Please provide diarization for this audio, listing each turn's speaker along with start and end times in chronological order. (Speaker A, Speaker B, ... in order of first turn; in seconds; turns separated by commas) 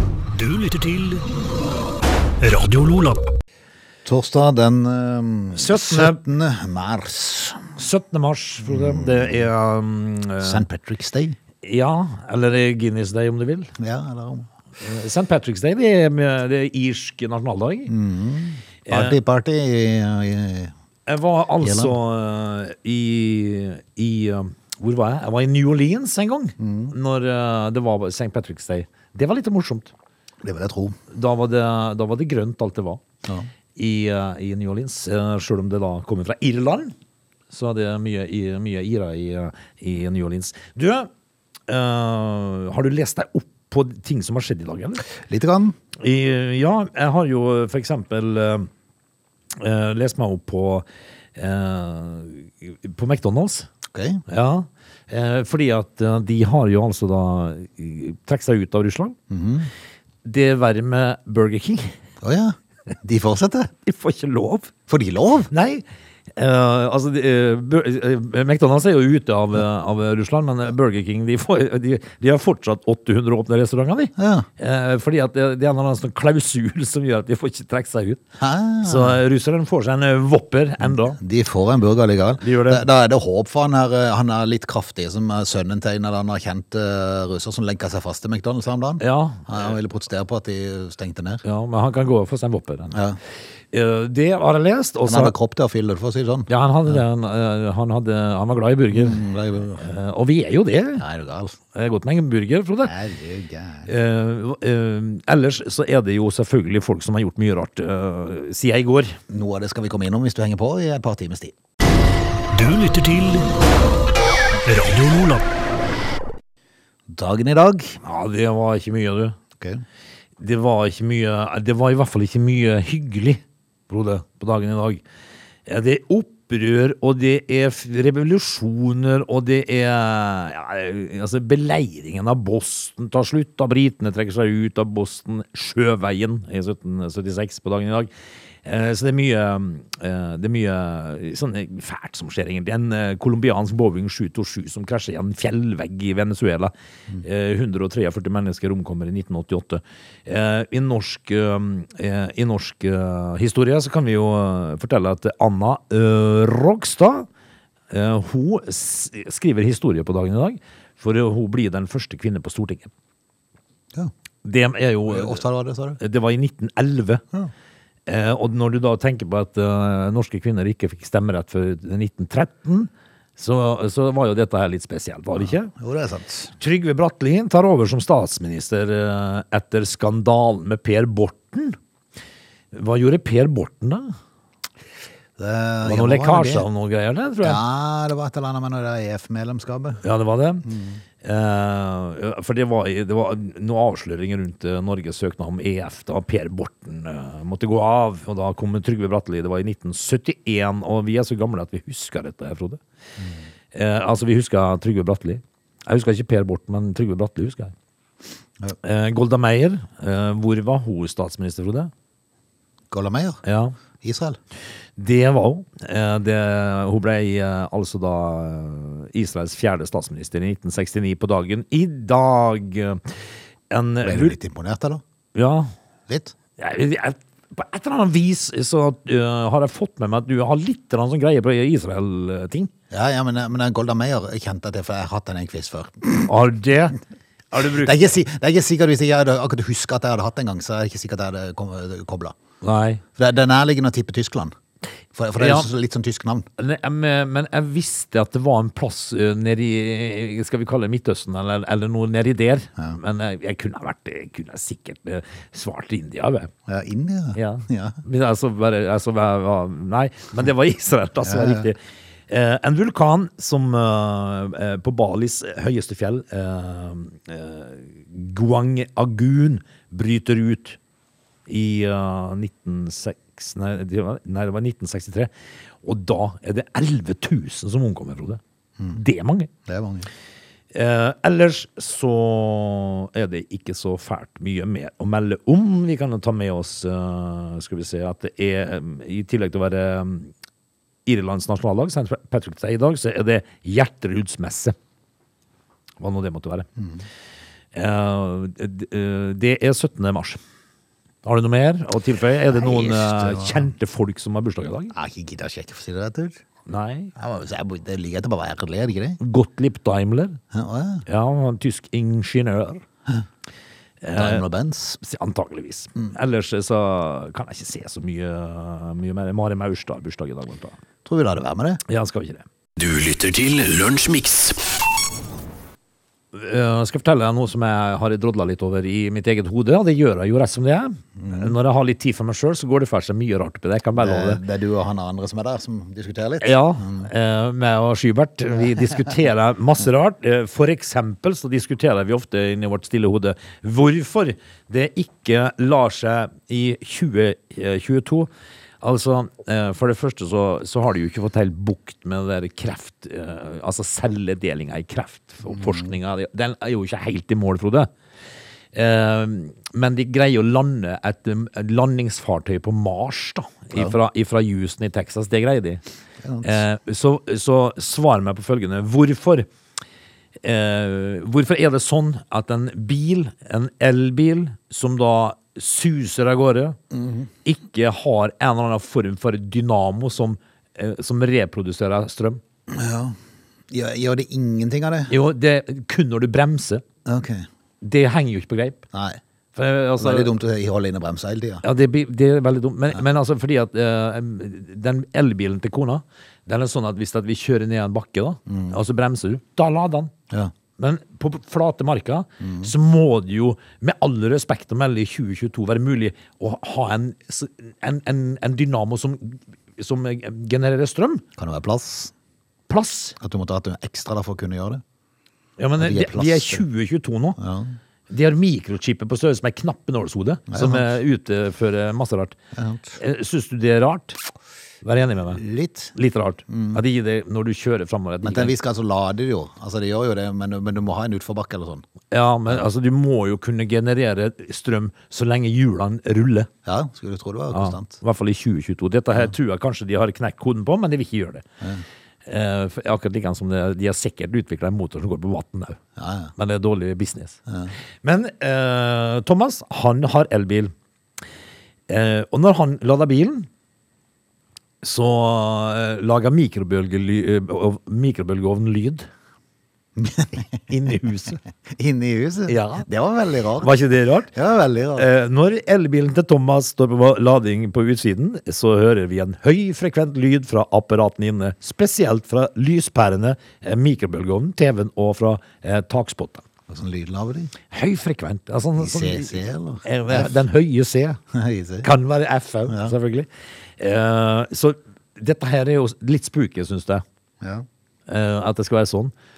Speaker A: 0.3-1.3, Speaker A: 2.4-3.2, Speaker B: 4.0-7.8, Speaker C: 5.5-6.2, Speaker C: 7.8-10.7, Speaker B: 8.6-9.5, Speaker B: 10.4-11.4, Speaker C: 11.6-13.7, Speaker B: 13.8-14.5, Speaker C: 14.8-17.9, Speaker B: 17.9-20.7, Speaker C: 18.9-19.2, Speaker C: 21.1-29.9, Speaker B: 21.6-22.0, Speaker B: 26.6-26.9, Speaker B: 30.4-31.0, Speaker C: 31.1-33.0, Speaker B: 33.2-33.5, Speaker C: 33.8-36.9, Speaker C: 37.5-41.1, Speaker C: 41.7-45.0, Speaker B: 45.2-45.8, Speaker C: 46.0-48.7, Speaker C: 49.5-53.7, Speaker B: 53.9-54.2, Speaker C: 54.3-59.2, Speaker B: 59.3-59.7, Speaker C: 60.2-62.0, Speaker B: 62.2-63.7, Speaker C: 63.8-64.7, Speaker B: 64.9-65.5, Speaker C: 65.5-78.2, Speaker B: 74.2-74.5, Speaker B: 78.4-79.2, Speaker C: 78.8-81.2, Speaker B: 81.1-91.4, Speaker C: 82.4-82.8, Speaker C: 89.0-89.7, Speaker C: 91.4-93.0, Speaker B: 92.9-93.2, Speaker C: 93.7-95.3, Speaker B: 95.0-97.0, Speaker C: 96.5-99.2, Speaker B: 98.9-99.9, Speaker C: 99.8-101.0, Speaker B: 101.0-101.6, Speaker C: 101.7-102.9, Speaker B: 102.8-103.9, Speaker C: 103.9-109.2, Speaker B: 109.3-111.5, Speaker A: 112.5-113.5, Speaker A: 114.7-115.5, Speaker B: 117.1-118.0, Speaker C: 118.0-119.4, Speaker C: 120.4-125.0, Speaker C: 125.7-138.1, Speaker C: 138.6-157.3, Speaker C: 157.9-162.9, Speaker C: 164.4-165.4, Speaker B: 165.1-166.0, Speaker C: 166.0-167.2, Speaker C: 168.1-175.7, Speaker B: 175.7-176.5, Speaker C: 176.6-181.8, Speaker C: 182.7-184.1, Speaker B: 185.4-186.7, Speaker C: 185.8-187.6, Speaker B: 187.4-190.0, Speaker C: 190.0-190.7, Speaker B: 190.6-191.0, Speaker C: 191.2-202.8, Speaker C: 203.7-207.7, Speaker C: 208.8-211.9, Speaker B: 212.9-213.4, Speaker C: 213.4-213.8, Speaker B: 214.0-214.4, Speaker C: 215.0-224.4, Speaker B: 224.0-225.0, Speaker C: 225.3-225.7, Speaker B: 226.1-226.3, Speaker C: 226.6-232.7, Speaker B: 232.9-236.3, Speaker C: 236.3-237.0, Speaker C: 237.5-238.1, Speaker B: 237.7-242.4, Speaker C: 242.6-243.0, Speaker B: 243.2-244.6, Speaker B: 245.1-246.5, Speaker C: 245.4-245.7, Speaker C: 246.6-256.5, Speaker B: 256.7-258.0, Speaker C: 257.4-270.8, Speaker B: 261.2-261.7, Speaker C: 271.5-275.3, Speaker C: 275.8-278.4, Speaker C: 278.9-279.5, Speaker B: 279.7-280.1, Speaker C: 280.7-290.3, Speaker C: 291.1-294.8, Speaker C: 296.0-296.7, Speaker C: 297.7-300.4, Speaker C: 301.2-304.9, Speaker B: 302.5-303.7, Speaker B: 304.9-306.4, Speaker C: 306.7-307.1, Speaker B: 307.1-309.2, Speaker C: 309.2-310.4, Speaker B: 310.5-311.1, Speaker C: 311.1-312.9, Speaker C: 314.0-314.5, Speaker B: 314.1-315.0, Speaker C: 315.0-320.8, Speaker B: 321.1-321.8, Speaker C: 321.9-322.4, Speaker A: 322.8-324.6, Speaker C: 326.3-334.4, Speaker B: 331.2-331.5, Speaker B: 334.0-337.1, Speaker C: 336.4-348.3, Speaker C: 348.8-357.9, Speaker C: 358.7-365.8, Speaker B: 366.2-366.6, Speaker C: 366.4-369.5, Speaker C: 370.4-376.8, Speaker B: 376.9-377.3, Speaker C: 377.4-382.4, Speaker B: 382.7-383.2, Speaker B: 383.7-385.1, Speaker C: 385.1-386.8, Speaker B: 387.1-387.5, Speaker C: 387.8-388.8, Speaker B: 388.9-389.2, Speaker C: 389.6-390.3, Speaker B: 390.0-391.6, Speaker C: 391.6-400.1, Speaker B: 398.5-398.8, Speaker C: 400.8-411.2, Speaker B: 402.4-402.7, Speaker B: 411.4-412.1, Speaker C: 412.7-413.2, Speaker B: 413.2-414.8, Speaker C: 415.6-417.4, Speaker B: 415.8-416.6, Speaker B: 417.4-417.8, Speaker C: 418.1-422.4, Speaker B: 420.5-420.9, Speaker B: 422.5-423.0, Speaker C: 423.0-424.2, Speaker C: 424.8-425.4, Speaker B: 425.3-425.9, Speaker C: 425.9-428.5, Speaker B: 426.5-426.8, Speaker B: 428.2-431.8, Speaker C: 432.1-436.5, Speaker B: 436.6-438.0, Speaker C: 437.5-441.4, Speaker C: 442.2-445.8, Speaker B: 446.0-446.3, Speaker C: 446.4-447.4, Speaker C: 448.0-450.7, Speaker C: 451.9-453.5, Speaker C: 454.8-459.1, Speaker B: 460.0-460.7, Speaker C: 460.7-461.4, Speaker B: 461.8-463.7, Speaker C: 462.5-462.9, Speaker C: 463.6-464.3, Speaker B: 464.3-465.1, Speaker C: 465.0-476.5, Speaker B: 476.7-477.5, Speaker C: 477.7-481.2, Speaker B: 478.8-480.3, Speaker B: 481.3-481.9, Speaker C: 481.8-487.0, Speaker B: 482.7-482.9, Speaker C: 488.1-489.1